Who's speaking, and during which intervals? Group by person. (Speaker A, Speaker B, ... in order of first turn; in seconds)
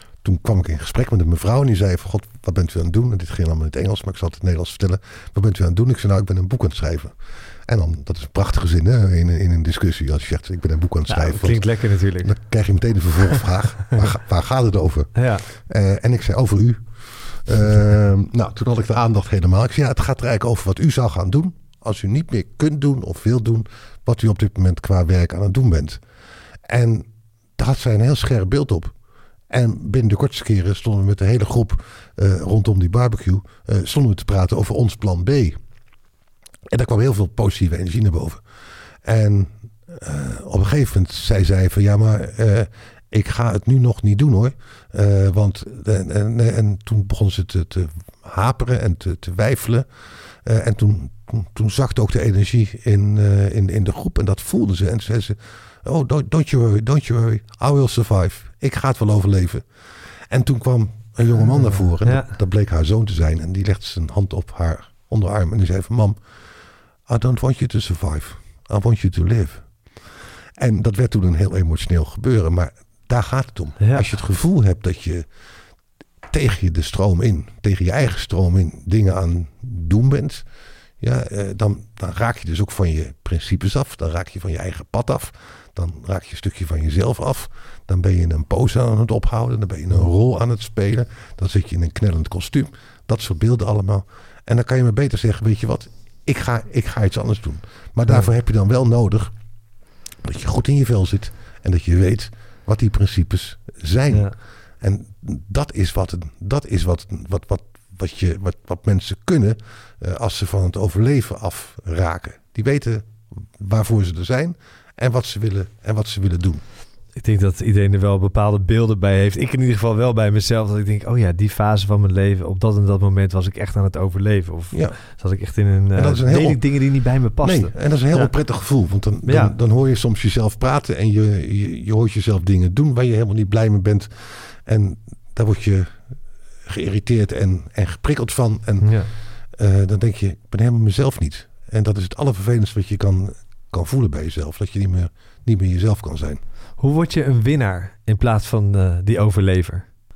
Speaker A: 0.2-7.1, 7.7-11.7, 12.2-26.0, 26.6-28.9, 29.5-35.6, 36.7-38.4, 39.0-49.9, 50.4-59.6, 60.3-66.2, 67.1-69.7, 70.6-75.3, 76.3-80.4, 81.0-99.3, 100.2-116.6, 124.7-125.0, 125.9-126.6, 127.4-136.0, 136.6-146.4
Speaker B: 11.1-12.3, 15.1-15.4, 62.0-62.3, 73.8-74.0, 117.2-128.3, 129.2-129.5, 138.8-139.1, 146.8-149.8